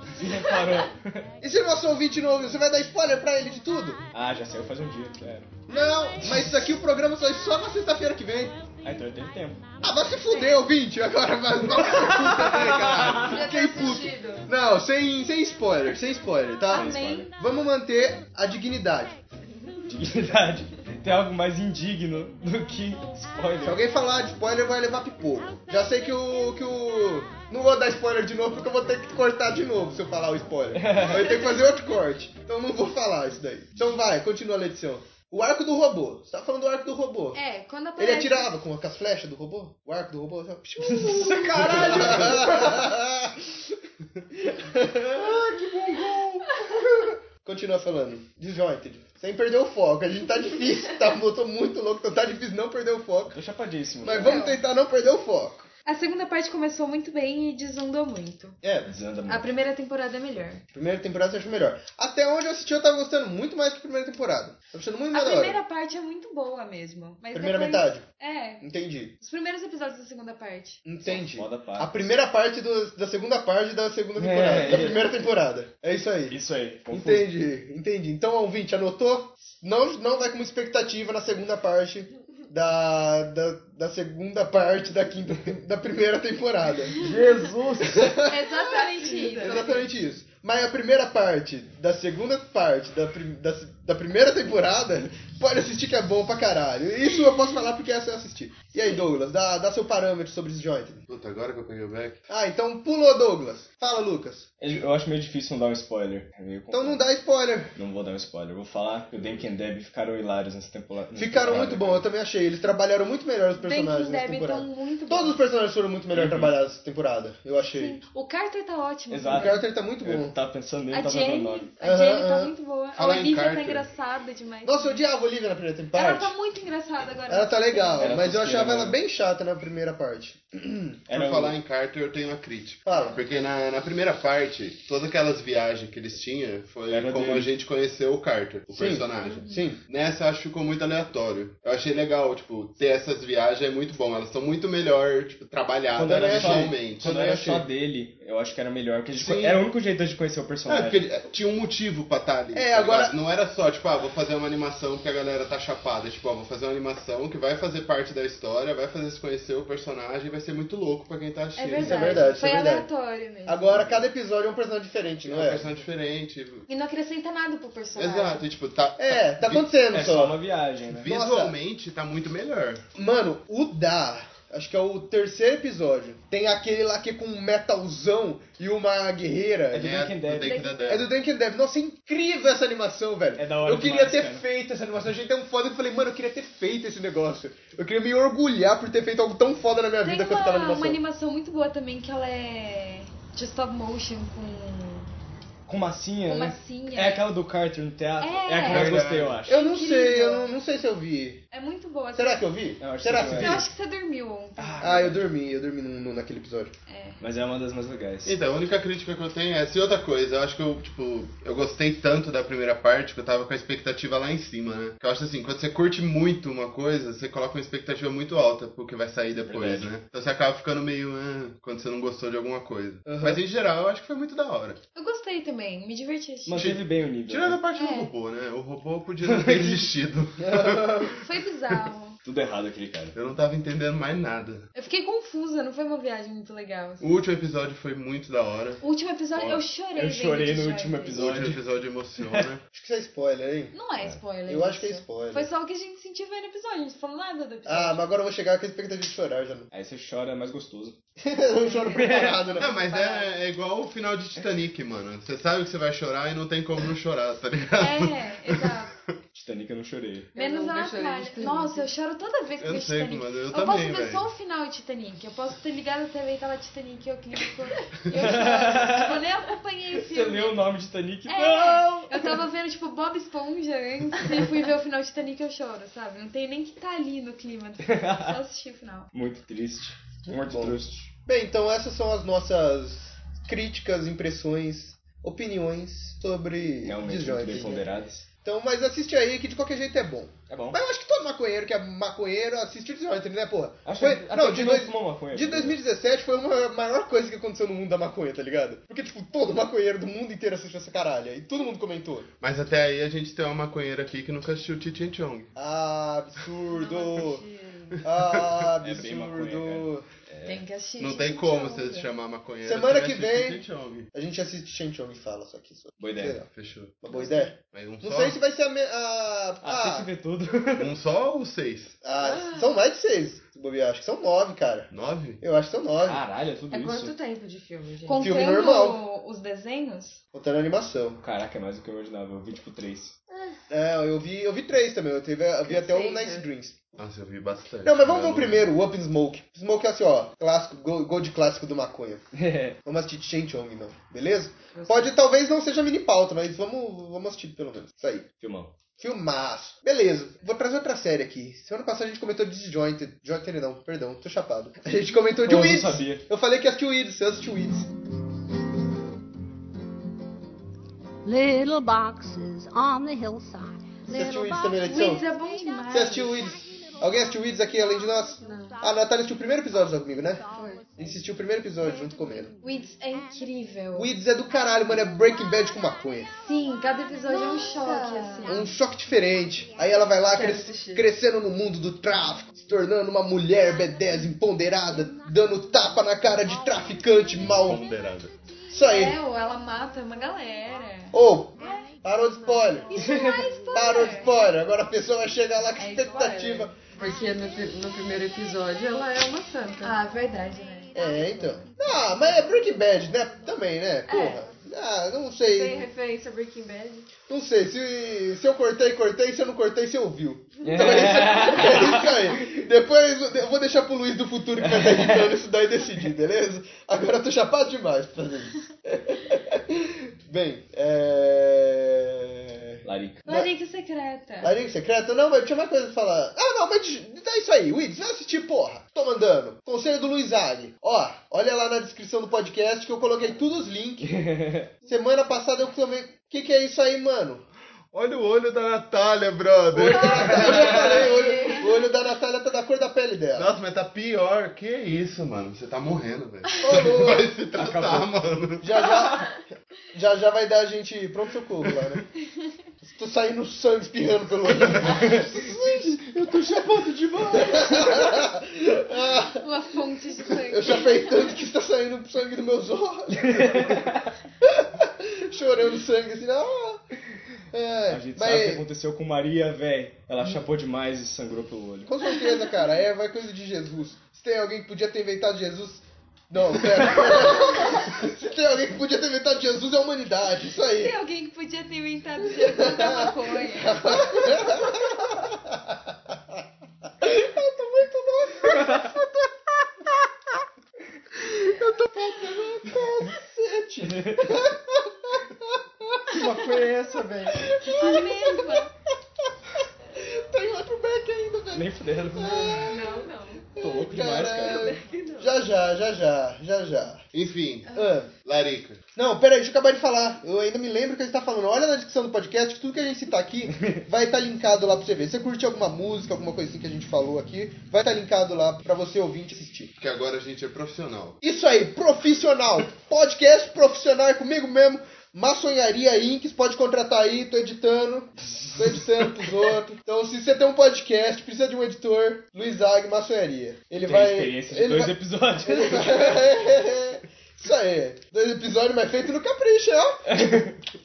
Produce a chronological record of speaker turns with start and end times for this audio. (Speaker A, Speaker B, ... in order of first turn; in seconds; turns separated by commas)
Speaker A: 0.1-1.3, Speaker B: 1.4-4.0, Speaker A: 4.1-5.5, Speaker B: 5.7-8.6, Speaker A: 8.8-9.7, Speaker B: 9.8-19.2, Speaker C: 10.3-10.6, Speaker A: 12.0-13.4, Speaker D: 13.2-14.5, Speaker C: 16.7-17.3, Speaker A: 16.7-17.3, Speaker A: 19.9-23.8, Speaker B: 23.6-37.4, Speaker A: 30.7-31.3, Speaker C: 37.3-38.6, Speaker B: 38.0-43.6, Speaker A: 40.9-42.9, Speaker B: 44.4-53.4, Speaker A: 53.3-54.5, Speaker B: 54.0-55.7, Speaker C: 54.1-54.6, Speaker C: 55.9-58.6, Speaker B: 58.6-59.0, Speaker A: 58.9-59.5, Speaker C: 59.3-60.6, Speaker B: 60.7-65.6, Speaker C: 65.1-68.7, Speaker B: 67.3-68.0, Speaker B: 68.6-69.1, Speaker C: 69.2-70.8, Speaker B: 70.8-76.4, Speaker A: 71.0-72.0, Speaker A: 74.2-75.0, Speaker A: 76.3-77.3, Speaker B: 76.9-87.1, Speaker A: 87.0-88.2, Speaker B: 87.8-88.7, Speaker C: 88.3-89.9, Speaker D: 89.0-89.8, Speaker B: 89.3-101.1, Speaker E: 101.1-102.2, Speaker B: 102.3-104.5, Speaker A: 104.6-107.0, Speaker B: 106.7-107.7, Speaker A: 107.8-112.0, Speaker B: 111.2-118.0, Speaker C: 113.6-115.4, Speaker A: 116.1-116.5, Speaker C: 117.7-119.7, Speaker A: 119.1-121.7, Speaker B: 119.3-120.3, Speaker C: 120.9-125.0, Speaker B: 121.8-122.5, Speaker E: 123.0-123.9, Speaker B: 124.7-126.3, Speaker C: 125.9-128.2, Speaker B: 127.3-131.0, Speaker A: 128.0-129.0, Speaker A: 131.1-131.6, Speaker E: 131.1-147.7, Speaker B: 132.9-133.2, Speaker A: 136.9-137.5, Speaker B: 138.7-139.8, Speaker C: 139.3-139.6, Speaker A: 146.0-151.0, Speaker B: 146.0-147.6, Speaker E: 149.1-149.6, Speaker E: 150.7-162.3, Speaker B: 152.5-153.2, Speaker C: 161.6-163.8, Speaker B: 161.8-162.9, Speaker B: 163.5-165.7, Speaker E: 165.2-166.7, Speaker C: 166.7-168.4, Speaker E: 168.0-169.7, Speaker B: 169.0-170.4, Speaker A: 169.9-171.1, Speaker E: 170.9-172.8, Speaker B: 171.1-171.6, Speaker B: 172.9-180.1, Speaker A: 179.7-180.7, Speaker E: 179.8-181.1, Speaker C: 180.4-181.1, Speaker B: 180.9-191.0, Speaker A: 183.4-184.5, Speaker C: 190.0-195.1, Speaker A: 195.7-199.6, Speaker C: 196.3-197.3, Speaker C: 198.2-200.5, Speaker E: 198.6-199.4, Speaker B: 199.5-201.4, Speaker C: 201.5-202.5, Speaker B: 202.1-203.7, Speaker A: 202.8-203.7, Speaker C: 203.2-205.1, Speaker A: 204.6-205.3, Speaker B: 204.8-206.7, Speaker C: 206.9-207.2, Speaker A: 207.2-208.3, Speaker E: 208.2-224.8, Speaker A: 219.4-219.9, Speaker B: 223.1-223.4, Speaker C: 224.9-226.7, Speaker A: 226.5-227.6, Speaker E: 226.6-231.2, Speaker C: 227.8-228.1, Speaker A: 229.2-229.9, Speaker B: 230.4-231.2, Speaker C: 231.2-232.2, Speaker A: 232.2-233.2, Speaker E: 233.2-234.7, Speaker C: 234.8-237.1, Speaker E: 237.0-238.8, Speaker C: 238.8-241.2, Speaker A: 239.4-241.6, Speaker E: 241.1-242.6, Speaker B: 242.7-243.8, Speaker C: 243.7-248.1, Speaker B: 244.5-245.5, Speaker B: 247.7-249.7, Speaker A: 249.7-251.0, Speaker B: 251.2-252.8, Speaker C: 251.6-253.3, Speaker A: 251.9-252.4, Speaker E: 252.6-259.1, Speaker C: 257.8-258.9, Speaker A: 259.3-260.3, Speaker D: 260.4-261.9, Speaker C: 260.4-270.6, Speaker E: 262.6-264.2, Speaker A: 268.1-269.2, Speaker A: 269.9-272.4, Speaker C: 271.3-279.1, Speaker A: 277.9-278.4, Speaker A: 279.1-281.1, Speaker B: 280.4-287.9, Speaker A: 286.8-288.3, Speaker B: 288.4-302.3, Speaker A: 290.5-290.8, Speaker A: 293.9-295.8, Speaker E: 302.4-305.5, Speaker B: 305.6-307.4, Speaker D: 306.7-308.0, Speaker B: 308.0-310.1, Speaker E: 308.0-308.7, Speaker A: 308.8-310.6, Speaker C: 310.4-312.1, Speaker E: 311.0-314.1, Speaker B: 312.6-316.5, Speaker A: 316.0-316.4, Speaker E: 316.5-317.0, Speaker B: 317.0-320.1, Speaker E: 317.6-318.4, Speaker A: 319.6-320.9, Speaker E: 320.8-322.0, Speaker B: 322.0-326.2, Speaker D: 322.2-322.7, Speaker E: 324.9-325.4, Speaker A: 326.0-327.2, Speaker D: 326.7-328.4, Speaker C: 328.1-330.2, Speaker B: 328.2-329.0, Speaker B: 330.3-331.2, Speaker A: 331.2-333.1, Speaker B: 333.7-336.8, Speaker D: 335.6-336.5, Speaker E: 336.9-338.7, Speaker B: 337.8-342.2, Speaker A: 342.3-342.8, Speaker B: 342.8-348.3, Speaker D: 344.7-345.1, Speaker A: 348.4-348.7, Speaker B: 349.0-357.9, Speaker A: 355.4-356.3, Speaker F: 361.2-365.1, Speaker B: 364.1-365.3, Speaker C: 364.8-366.4, Speaker B: 365.9-370.4, Speaker D: 368.4-368.8, Speaker D: 370.5-370.9, Speaker B: 370.9-372.5, Speaker C: 372.6-374.1, Speaker B: 373.9-376.3, Speaker C: 376.4-378.7, Speaker D: 377.3-378.6, Speaker B: 378.4-387.9, Speaker D: 380.3-381.1, Speaker E: 387.4-388.3, Speaker B: 388.7-389.2, Speaker C: 388.8-391.2, Speaker B: 391.1-393.1, Speaker C: 392.9-394.5, Speaker B: 393.7-396.8, Speaker D: 395.8-400.0, Speaker C: 395.9-396.4, Speaker C: 399.8-400.9, Speaker B: 400.9-405.9, Speaker D: 404.1-404.4, Speaker D: 405.4-407.1, Speaker B: 407.3-423.5, Speaker A: 410.6-412.3, Speaker A: 414.6-415.4, Speaker A: 422.8-423.2, Speaker C: 423.2-424.5, Speaker B: 424.4-434.1, Speaker A: 434.0-434.7, Speaker B: 434.9-437.4, Speaker E: 437.9-441.1, Speaker B: 439.7-443.5, Speaker E: 443.3-448.9, Speaker B: 446.6-447.3, Speaker A: 447.6-448.1, Speaker B: 448.6-449.4, Speaker B: 449.9-452.1, Speaker B: 452.8-459.4, Speaker E: 454.6-455.1, Speaker A: 454.9-455.3, Speaker A: 456.1-457.9, Speaker C: 459.4-461.4, Speaker B: 460.3-466.8, Speaker A: 463.1-464.1, Speaker B: 467.5-468.7, Speaker A: 467.9-471.9, Speaker B: 471.9-481.0, Speaker C: 480.7-484.6, Speaker B: 482.3-486.2, Speaker B: 487.0-489.3, Speaker A: 488.6-488.9, Speaker B: 491.1-496.7, Speaker A: 493.9-494.4, Speaker A: 496.1-497.6, Speaker B: 497.3-498.7, Speaker C: 497.7-498.7, Speaker B: 499.9-507.0, Speaker A: 501.5-502.7, Speaker D: 502.4-503.5, Speaker A: 503.6-504.8, Speaker D: 504.4-505.4, Speaker E: 507.1-508.8, Speaker B: 507.7-508.1, Speaker B: 508.9-519.7, Speaker E: 519.8-521.2, Speaker B: 521.2-540.4, Speaker A: 533.8-536.3, Speaker A: 540.1-540.6